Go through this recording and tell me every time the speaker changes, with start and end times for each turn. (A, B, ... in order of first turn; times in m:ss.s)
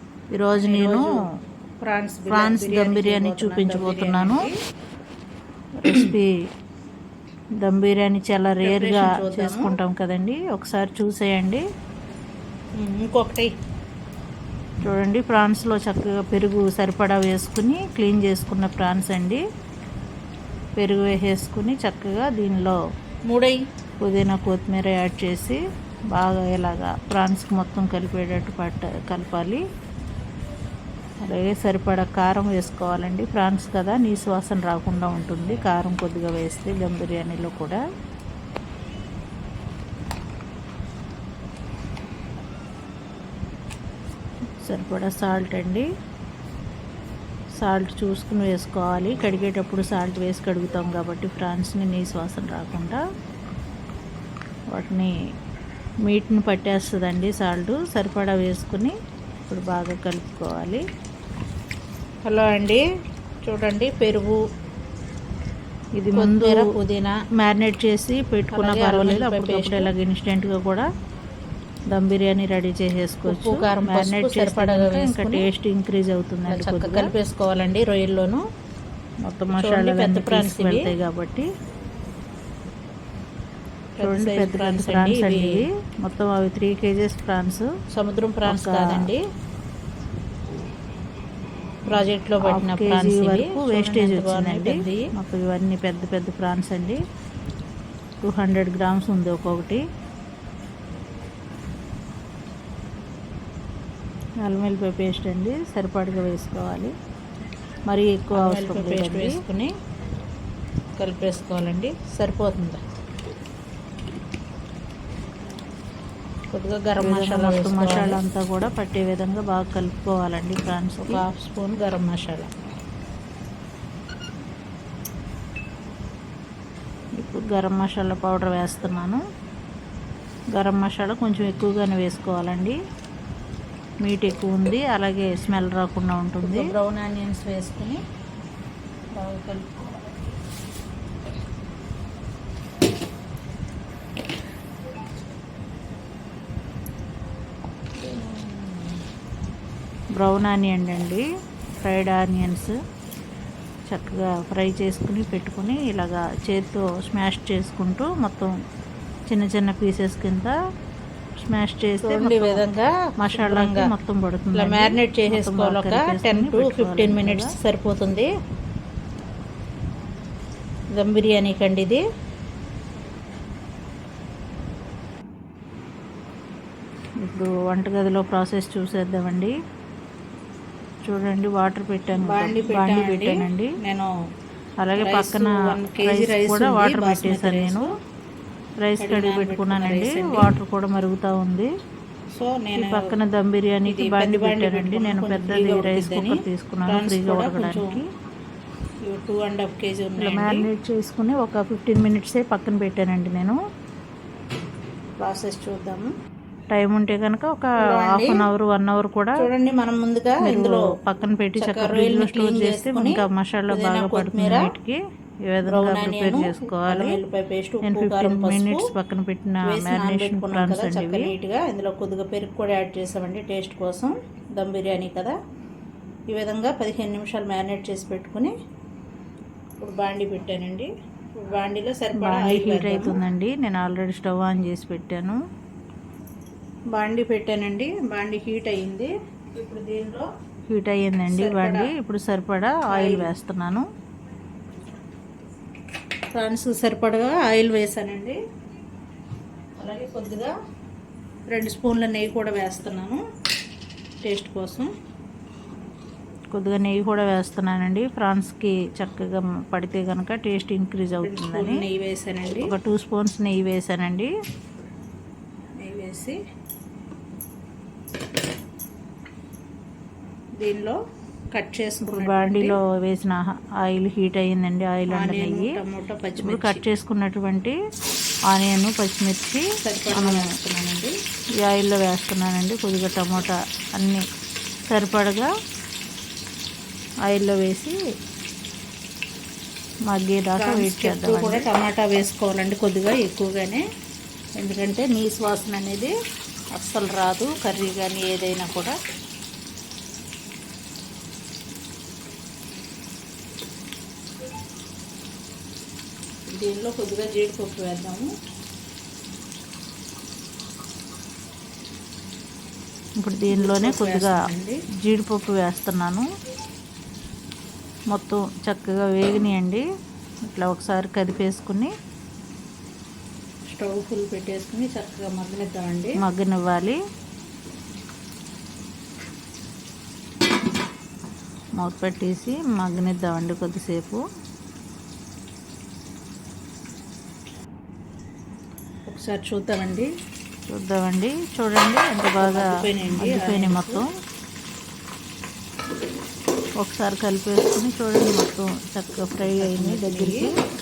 0:00.3-0:01.2 A
0:00.6-0:01.2 B
0:01.8-0:04.5 B
0:02.3-0:04.5 A
0:05.8-0:06.3 A
0:07.6-0:11.6 A
0:08.6-0:09.8 B
0:12.8-0:13.5 B
0:14.8-0:19.4 A
0:20.8-0:22.8 A
0:23.3-0:23.6 B
0:24.0-0:25.6 A
0:26.1-0:29.6 A
0:31.2-0:37.8 A
0:44.6-0:45.9 A
0:47.6-0:53.0 A
0:54.7-0:55.1 A
0:56.1-0:58.9 A
0:59.5-1:00.8 A
1:02.2-1:02.8 B
1:03.4-1:04.4 B
1:06.0-1:10.8 A
1:06.1-1:07.1 B
1:08.5-1:09.9 B
1:11.9-1:17.1 A
1:13.2-1:15.5 B
1:16.5-1:18.4 B
1:19.3-1:21.5 A
1:19.5-1:20.9 B
1:24.0-1:25.6 B
1:24.0-1:27.7 A
1:27.9-1:29.2 B
1:28.4-1:29.2 A
1:31.9-1:35.1 B
1:32.4-1:37.0 A
1:38.2-1:39.8 A
1:44.4-1:46.9 A
1:47.9-1:49.4 A
1:48.3-1:49.7 B
1:51.0-1:52.8 B
1:56.5-1:58.2 B
1:57.0-2:01.6 A
2:01.0-2:02.5 B
2:07.2-2:09.2 A
2:10.6-2:12.8 A
2:14.0-2:16.7 A
2:16.4-2:18.0 B
2:19.2-2:20.2 B
2:28.0-2:29.0 B
2:30.2-2:31.2 A
2:31.8-2:32.8 A
2:33.9-2:38.5 A
2:39.3-2:40.6 A
2:41.4-2:42.6 A
2:42.0-2:43.9 B
2:43.2-2:47.5 A
2:44.5-2:48.3 B
2:50.9-2:52.0 A
2:57.2-2:59.6 A
3:01.1-3:03.8 A
3:02.2-3:04.1 B
3:04.8-3:07.9 A
3:05.0-3:07.9 B
3:08.8-3:11.7 A
3:09.0-3:10.5 B
3:12.3-3:13.2 B
3:12.8-3:18.1 A
3:13.8-3:18.0 B
3:19.1-3:20.7 B
3:20.2-3:23.6 A
3:25.2-3:26.1 B
3:26.7-3:29.4 A
3:27.8-3:28.5 B
3:29.4-3:30.9 B
3:30.4-3:37.2 A
3:31.6-3:34.7 B
3:35.7-3:38.8 B
3:37.8-3:41.3 A
3:39.6-3:45.4 B
3:46.3-3:48.5 B
3:49.8-3:53.2 B
3:52.2-3:55.4 A
3:56.9-4:00.3 B
4:00.7-4:03.9 A
4:01.2-4:01.9 B
4:02.9-4:03.3 B
4:06.3-4:08.4 B
4:09.8-4:10.6 B
4:11.5-4:13.2 B
4:14.2-4:14.9 B
4:16.5-4:21.8 A
4:21.2-4:22.7 B
4:22.6-4:24.3 A
4:25.8-4:26.4 B
4:30.6-4:31.0 B
4:31.5-4:32.8 B
4:32.0-4:35.7 A
4:35.1-4:36.8 B
4:36.4-4:37.8 A
4:38.5-4:40.5 A
4:39.8-4:41.2 B
4:41.6-4:44.2 A
4:44.9-4:45.5 A
4:47.3-4:48.0 A
4:50.1-4:51.7 A
4:50.6-4:53.8 B
4:54.6-4:56.1 B
4:56.7-4:58.9 B
5:06.5-5:08.3 B
5:13.2-5:14.4 A
5:13.5-5:14.8 B
5:15.0-5:16.3 A
5:18.1-5:19.8 A
5:20.5-5:21.9 A
5:23.7-5:26.2 B
5:26.2-5:27.0 A
5:31.8-5:34.2 A
5:39.1-5:40.1 B
5:40.7-5:44.1 A
5:42.4-5:44.0 B
5:46.8-5:50.5 A
5:49.4-5:50.5 B